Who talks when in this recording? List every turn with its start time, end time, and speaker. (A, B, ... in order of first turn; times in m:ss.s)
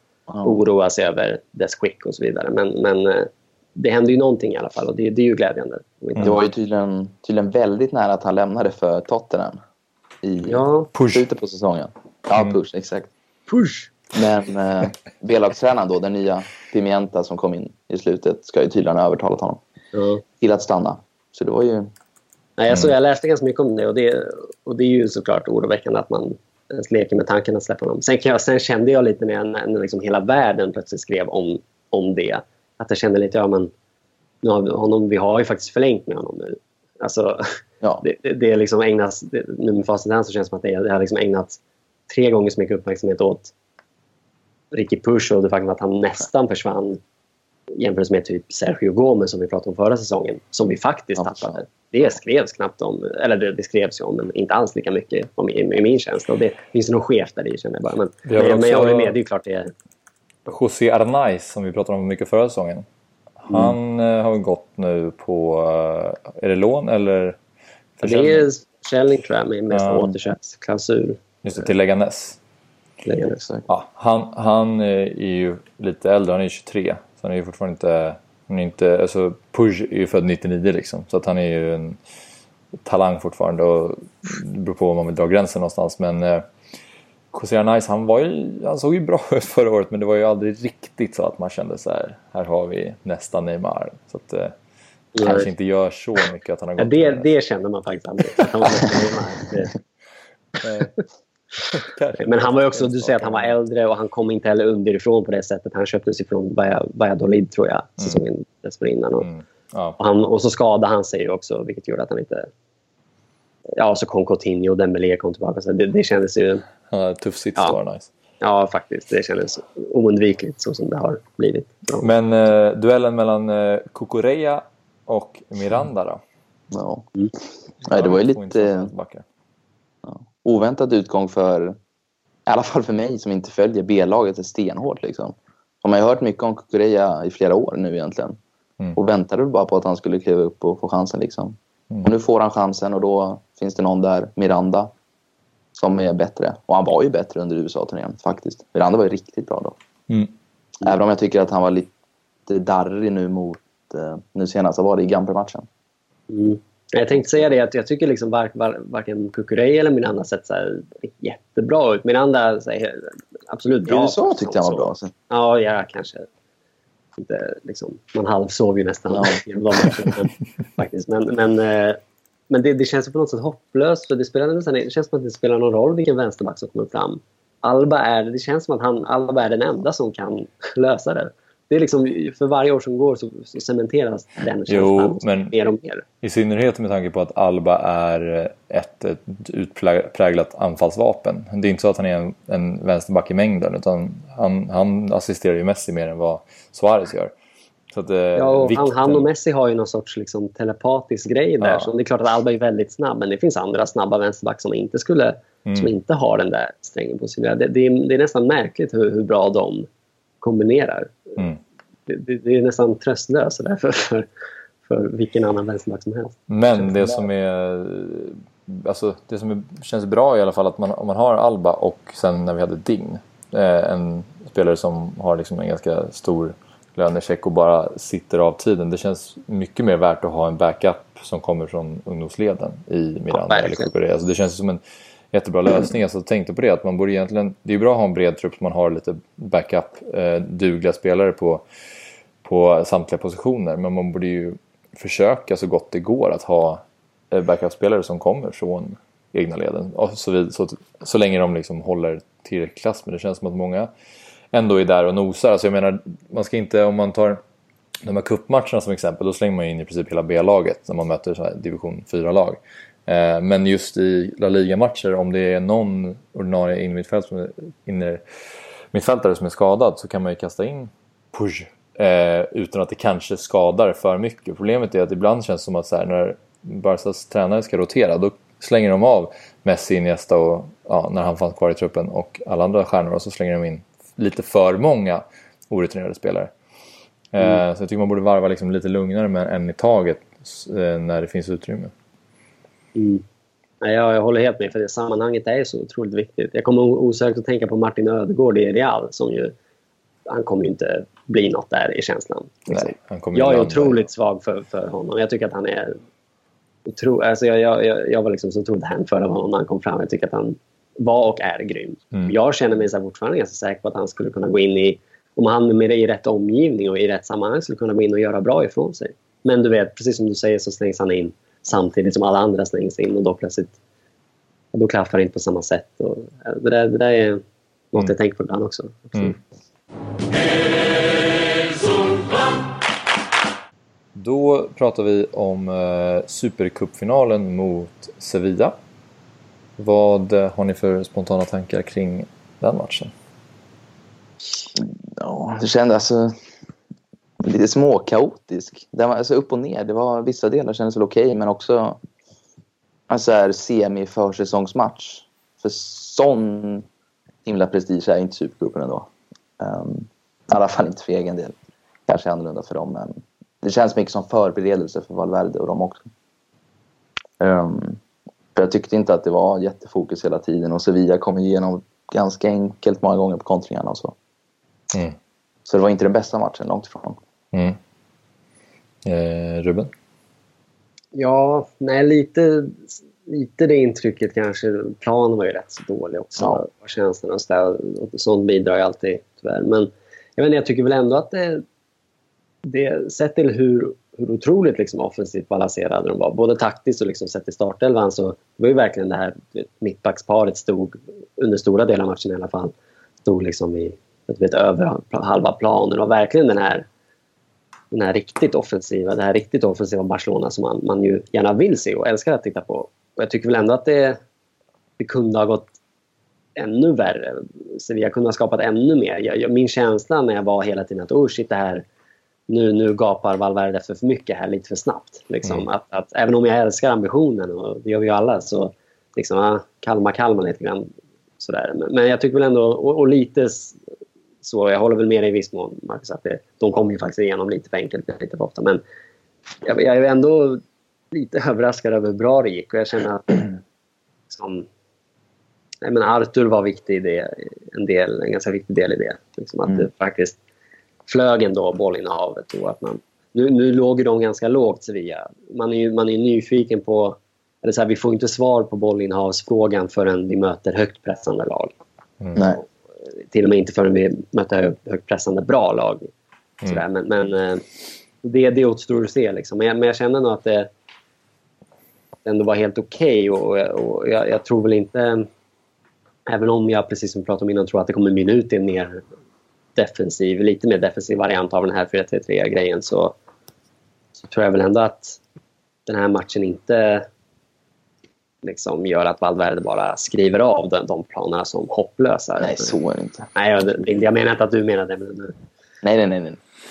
0:00.3-0:00.6 A
0:00.4-0:06.4 B
0:06.2-0:09.6 A
0:10.2-0:13.1 A
0:10.4-0:10.9 B
0:10.9-0:11.3 C
0:13.5-0:13.9 B
0:14.1-0:19.6 A
0:19.9-0:20.2 B
0:20.4-0:21.9 A
0:22.6-0:33.7 B
0:34.4-0:43.5 B
0:44.7-0:47.0 B
0:47.8-0:59.7 B
0:51.2-0:51.6 A
0:58.2-0:59.2 C
1:00.5-1:02.9 C
1:03.4-1:07.4 C
1:08.0-1:08.5 C
1:08.0-1:11.2 B
1:09.7-1:10.1 C
1:11.4-1:12.4 C
1:13.0-1:13.4 B
1:13.2-1:13.6 A
1:13.7-1:22.0 C
1:22.8-1:26.4 C
1:27.3-1:34.5 C
1:35.1-1:35.5 B
1:35.2-1:37.3 C
1:36.8-1:39.7 B
1:40.6-1:41.0 C
1:41.7-1:43.5 C
1:42.2-1:49.2 B
1:49.2-1:50.0 C
1:50.0-1:52.5 B
1:53.7-1:56.6 B
1:56.9-1:58.1 C
1:58.4-2:02.1 B
2:02.0-2:06.2 C
2:06.7-2:07.0 A
2:07.8-2:09.2 C
2:07.9-2:08.9 A
2:10.0-2:11.8 A
2:12.5-2:18.4 A
2:19.0-2:24.9 A
2:25.7-2:29.8 A
2:30.8-2:31.9 A
2:32.5-2:35.6 A
2:36.3-2:46.2 B
2:43.9-2:45.1 A
2:47.2-2:52.0 B
2:52.5-3:06.0 B
3:04.7-3:05.6 C
3:06.2-3:17.3 C
3:17.9-3:19.2 C
3:18.4-3:29.9 B
3:21.6-3:21.9 C
3:25.6-3:25.9 C
3:30.4-3:31.4 B
3:32.1-3:34.3 B
3:34.9-3:36.9 B
3:36.5-3:54.8 C
3:53.3-3:53.9 B
3:55.3-4:01.6 C
4:02.4-4:13.9 C
4:14.5-4:17.4 C
4:18.0-4:28.2 C
4:28.9-4:46.5 C
4:47.3-4:51.9 C
4:52.9-4:53.2 B
4:53.8-4:59.5 B
5:00.2-5:06.0 B
5:02.7-5:04.1 C
5:06.9-5:23.7 B
5:24.7-5:27.4 B
5:27.9-5:29.4 B
5:34.1-5:38.7 C
5:39.8-5:43.1 C
5:44.7-5:46.3 A
5:47.4-5:52.0 A
5:53.1-5:56.8 A
5:57.4-5:59.1 A
5:59.6-6:01.5 A
6:02.1-6:06.1 A
6:07.4-6:08.0 A
6:08.5-6:14.1 A
6:14.9-6:15.2 C
6:15.6-6:17.2 A
6:17.5-6:17.8 C
6:19.0-6:19.9 C
6:21.1-6:31.6 B
6:32.6-6:42.7 B
6:43.2-6:46.9 B
6:47.9-6:54.2 B
6:55.0-6:55.7 B
6:56.6-7:01.8 B
7:02.5-7:13.8 B
7:14.4-7:18.8 B
7:19.6-7:23.6 B
7:24.3-7:24.7 B
7:25.8-7:30.4 B
7:31.1-7:41.7 B
7:42.2-7:42.5 C
7:43.2-7:46.1 B
7:46.6-7:47.6 B
7:48.2-7:50.7 B
7:52.2-7:55.3 B
7:56.3-7:59.0 B
7:59.8-8:03.1 B
8:04.2-8:05.2 B
8:05.9-8:07.1 B
8:08.4-8:12.8 B
8:12.4-8:13.3 A
8:13.4-8:15.3 B
8:15.8-8:16.4 A